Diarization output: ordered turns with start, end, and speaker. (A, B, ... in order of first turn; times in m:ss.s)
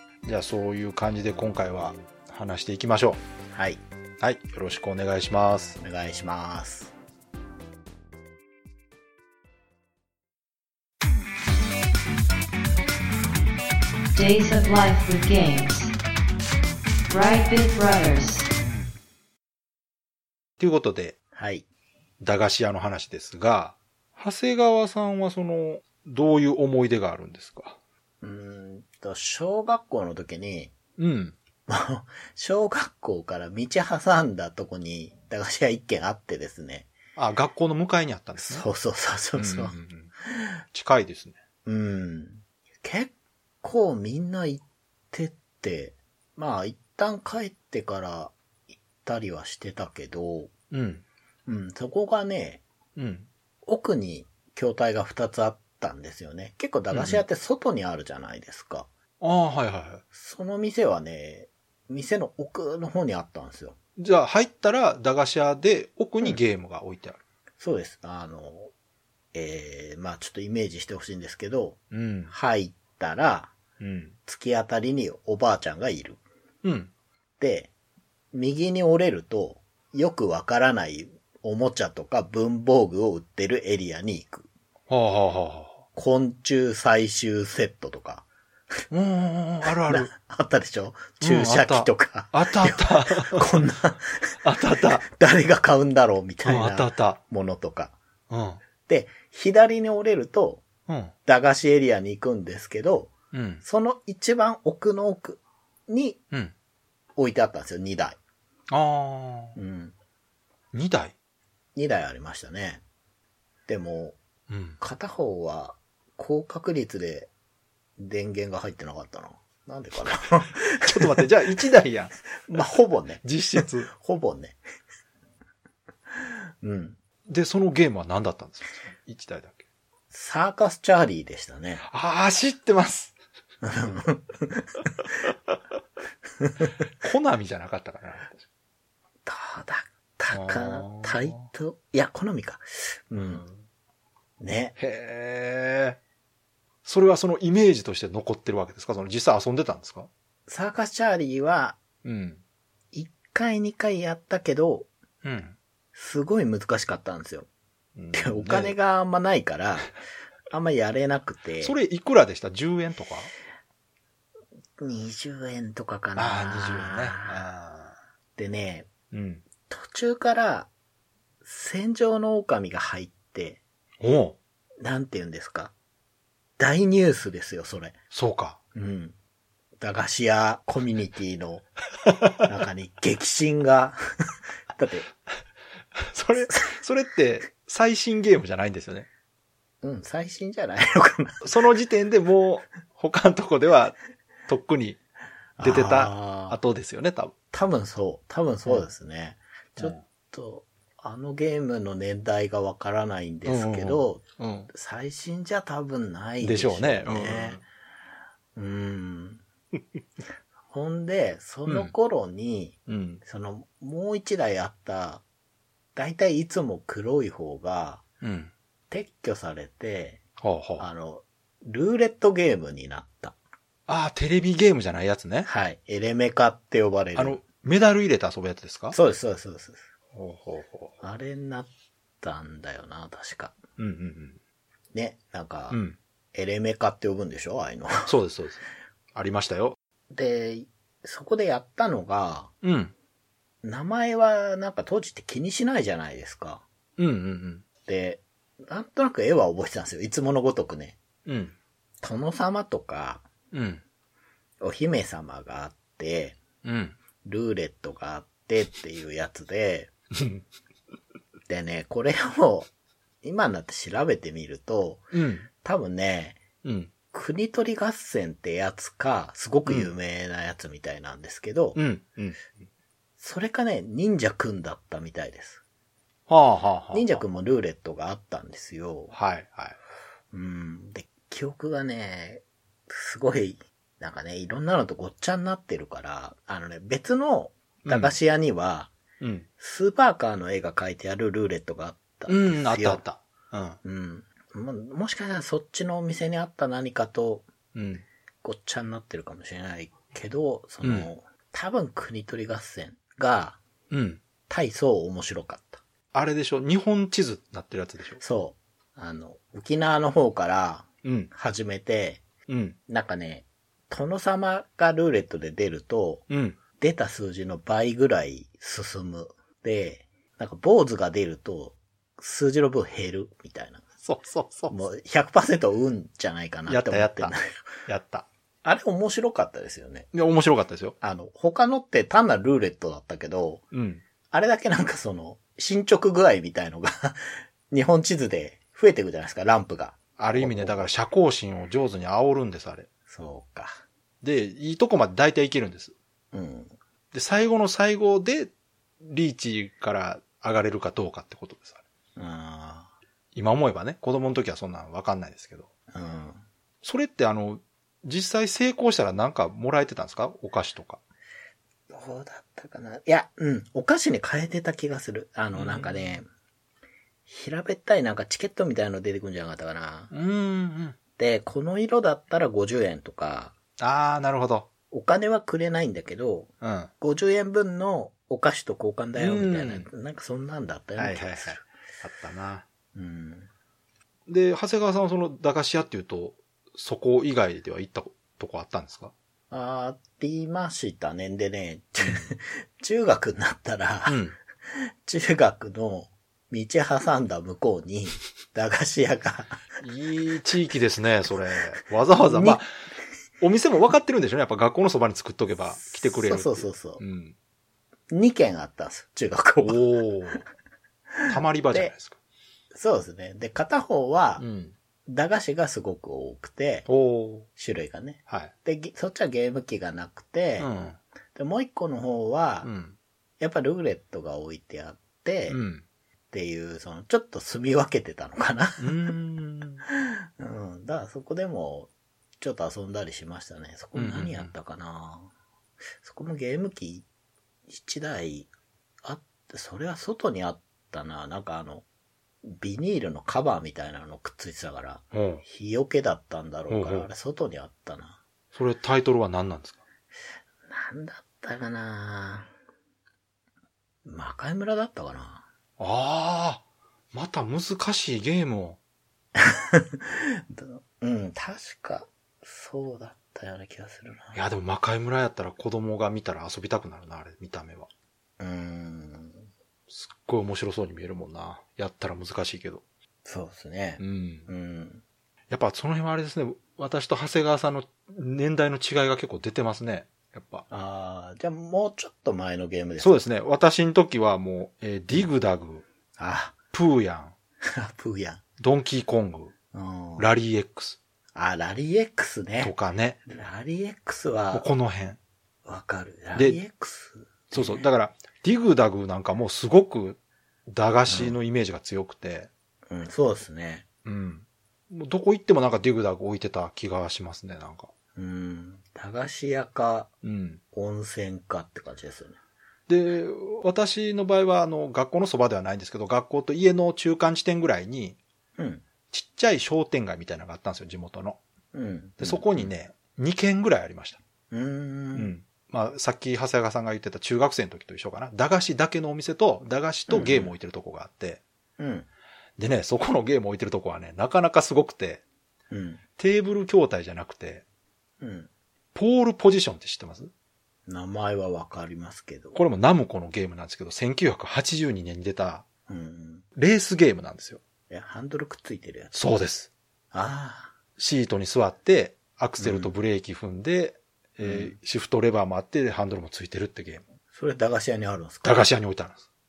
0:00.2-0:03.2 A
0:03.5-0:03.8 B
0:04.2-0:05.8 A
0:05.8-0:06.9 B
0:14.1-0:15.9 C
0:17.1-0:18.5 C
0:20.6-0:21.2 A
0:21.3-0:21.6 B
0:22.2-0:27.8 A
0:28.2-0:30.7 B
0:31.0-0:31.4 A
0:31.7-0:36.9 B
0:37.2-0:38.7 A
0:38.4-0:39.8 B
0:39.4-0:40.1 A
0:40.7-0:41.4 A
0:41.7-0:50.5 B
0:50.7-0:51.0 A
0:51.5-0:52.6 B
0:53.0-0:53.3 A
0:53.7-0:58.9 B
0:56.9-0:57.2 A
0:59.2-1:00.0 A
1:00.1-1:03.8 B
1:04.0-1:07.2 A
1:07.6-1:08.7 B
1:09.3-1:13.5 B
1:11.9-1:12.3 A
1:13.8-1:14.1 A
1:14.2-1:16.2 B
1:16.6-1:16.9 A
1:17.4-1:17.7 B
1:18.3-1:24.5 B
1:24.9-1:25.8 A
1:25.9-1:28.2 B
1:28.9-1:30.1 A
1:29.8-1:37.9 B
1:31.2-1:33.6 A
1:34.4-1:35.0 A
1:36.4-1:37.2 A
1:38.3-1:38.6 A
1:38.8-1:40.6 B
1:40.9-1:41.1 A
1:41.2-1:46.2 B
1:43.3-1:43.6 A
1:47.2-1:48.2 B
1:48.7-1:49.6 A
1:49.5-1:49.9 B
1:50.7-1:51.1 A
1:51.7-1:52.8 B
1:53.7-1:54.2 B
1:54.5-1:54.8 A
1:54.8-1:57.3 B
1:58.0-2:01.6 B
2:00.8-2:02.1 A
2:02.4-2:04.6 B
2:03.2-2:03.9 A
2:06.6-2:07.0 B
2:07.3-2:09.6 A
2:10.1-2:11.8 B
2:11.8-2:13.2 A
2:13.6-2:14.9 B
2:16.4-2:16.7 B
2:17.0-2:18.4 A
2:19.2-2:23.5 B
2:20.3-2:21.5 A
2:24.4-2:24.8 B
2:24.8-2:26.0 A
2:26.8-2:30.1 A
2:30.5-2:31.8 B
2:32.0-2:32.4 A
2:32.9-2:34.9 B
2:35.2-2:35.6 A
2:35.9-2:37.5 B
2:38.0-2:38.8 A
2:38.1-2:40.0 B
2:40.5-2:41.8 B
2:41.6-2:43.3 A
2:44.8-2:47.5 B
2:46.2-2:47.9 A
2:48.4-2:48.9 B
2:49.1-2:49.4 A
2:49.7-2:50.7 B
2:51.4-2:53.6 B
2:54.0-2:54.4 A
2:54.8-2:55.7 B
2:56.6-2:57.9 B
2:58.1-2:58.6 A
2:58.7-2:59.2 B
2:59.8-3:01.7 B
3:02.4-3:04.0 B
3:04.7-3:05.1 B
3:06.0-3:09.1 A
3:09.8-3:11.5 B
3:11.4-3:14.0 A
3:14.5-3:15.0 A
3:15.6-3:16.6 B
3:15.6-3:17.3 A
3:17.5-3:27.6 B
3:23.4-3:24.7 A
3:26.4-3:27.6 A
3:28.6-3:29.4 B
3:30.7-3:35.2 B
3:31.7-3:31.9 A
3:32.9-3:33.2 A
3:35.9-3:38.0 B
3:38.2-3:38.5 A
3:38.9-3:40.2 B
3:40.4-3:40.8 A
3:40.8-3:43.3 B
3:43.9-3:45.5 A
3:45.5-3:47.4 B
3:47.2-3:49.0 A
3:48.9-3:49.8 B
3:50.1-3:51.0 A
3:51.0-3:51.7 B
3:52.2-3:53.6 B
3:53.8-3:54.4 A
3:54.9-3:55.8 B
3:55.7-3:56.0 A
3:56.3-3:58.1 B
3:58.0-3:59.8 A
4:00.1-4:02.5 B
4:02.6-4:02.9 A
4:03.6-4:06.6 B
4:07.0-4:07.6 A
4:07.9-4:11.0 B
4:11.2-4:11.5 A
4:12.0-4:13.2 B
4:13.5-4:13.8 A
4:14.6-4:16.4 B
4:16.6-4:17.0 A
4:17.2-4:19.9 B
4:20.2-4:20.4 A
4:21.5-4:22.7 B
4:23.2-4:26.4 B
4:25.1-4:25.5 A
4:26.6-4:26.9 A
4:27.1-4:31.8 B
4:29.6-4:29.9 A
4:31.8-4:32.5 A
4:33.2-4:35.6 B
4:36.3-4:37.2 A
4:36.9-4:39.1 B
4:39.1-4:39.8 A
4:40.3-4:48.9 B
4:47.9-4:48.1 A
4:49.2-4:49.5 A
4:49.6-4:53.0 B
4:52.3-4:53.8 A
4:53.8-4:57.5 B
4:57.7-4:58.0 A
4:58.4-5:03.6 B
5:00.8-5:01.1 A
5:03.9-5:04.2 A
5:04.5-5:05.8 B
5:06.1-5:08.2 A
5:08.2-5:12.2 B
5:11.0-5:11.3 A
5:12.5-5:12.8 A
5:12.9-5:16.2 B
5:16.3-5:16.6 A
5:16.8-5:23.8 B
5:24.0-5:24.7 A
5:24.7-5:27.6 B
5:26.7-5:27.4 A
5:27.9-5:28.3 A
5:28.6-5:30.1 B
5:30.1-5:31.0 A
5:31.0-5:33.6 B
5:33.7-5:34.0 A
5:34.3-5:40.9 B
5:40.2-5:42.9 A
5:43.1-5:43.8 B
5:44.2-5:45.9 A
5:46.3-5:46.8 B
5:47.1-5:51.8 A
5:52.2-5:52.9 B
5:53.3-5:55.7 A
5:55.9-5:56.4 B
5:56.8-6:01.0 A
6:01.9-6:06.3 B
6:05.5-6:06.1 A
6:07.3-6:10.1 B
6:10.1-6:11.0 A
6:11.2-6:13.5 B
6:13.8-6:14.7 A
6:14.9-6:21.6 B
6:16.6-6:16.9 A
6:19.2-6:19.9 A
6:21.0-6:22.6 A
6:22.9-6:23.5 B
6:24.3-6:29.1 A
6:29.5-6:34.2 B
6:32.0-6:32.3 A
6:34.1-6:34.4 A
6:34.7-6:39.6 B
6:39.8-6:42.7 A
6:42.3-6:42.6 B
6:43.4-6:47.3 A
6:45.7-6:47.0 B
6:48.1-6:49.8 B
6:49.6-6:50.4 A
6:51.2-6:51.9 B
6:51.3-6:52.2 A
6:52.7-6:54.4 B
6:54.4-6:54.8 A
6:55.1-6:56.8 B
6:56.9-6:57.5 A
6:57.6-7:00.7 B
7:00.6-7:01.0 A
7:01.3-7:02.7 B
7:02.6-7:02.9 A
7:03.4-7:05.6 B
7:05.5-7:05.8 A
7:06.3-7:09.1 B
7:08.8-7:09.8 A
7:09.9-7:15.3 B
7:13.9-7:14.5 A
7:16.0-7:17.0 B
7:17.7-7:18.5 B
7:19.0-7:21.8 B
7:22.4-7:28.2 B
7:25.1-7:25.4 A
7:26.7-7:27.1 A
7:28.5-7:29.8 A
7:30.7-7:32.5 B
7:34.0-7:35.4 B
7:35.8-7:38.8 A
7:39.4-7:44.4 B
7:44.3-7:47.9 A
7:48.4-7:49.4 B
7:49.9-7:52.8 A
7:53.2-7:55.0 B
7:54.0-7:54.5 A
7:55.5-8:00.6 A
8:00.7-8:03.2 B
8:03.0-8:05.8 A
8:06.2-8:06.6 B
8:06.7-8:07.3 A
8:07.7-8:08.4 B
8:08.6-8:09.5 A
8:09.7-8:10.3 B
8:10.2-8:11.0 A
8:11.3-8:12.7 B
8:12.6-8:13.2 A
8:13.2-8:14.7 B
8:14.5-8:15.2 A
8:15.6-8:17.8 B
8:16.3-8:16.6 A
8:17.5-8:22.5 A
8:21.1-8:21.4 B
8:22.9-8:23.8 B
8:24.0-8:27.9 A
8:28.2-8:30.1 B
8:30.2-8:30.6 A
8:30.7-8:32.4 B
8:32.9-8:38.2 A
8:38.6-8:38.8 B
8:39.1-8:41.4 A
8:41.7-8:42.7 B
8:42.2-8:44.2 A
8:44.5-8:45.3 B
8:45.1-8:51.4 A
8:50.1-8:50.5 B
8:51.8-8:52.1 B
8:52.6-8:55.2 A
8:55.7-8:56.0 B
8:56.2-8:57.6 A
8:58.2-8:58.5 B
8:58.9-9:00.3 A
9:00.9-9:02.6 B
9:02.5-9:05.6 A
9:05.9-9:06.4 B
9:06.5-9:07.6 A
9:07.9-9:09.1 B
9:09.1-9:09.7 A
9:10.1-9:10.8 B
9:11.0-9:17.0 A
9:12.6-9:12.9 B
9:14.4-9:14.8 B
9:17.3-9:18.6 B
9:18.4-9:19.2 A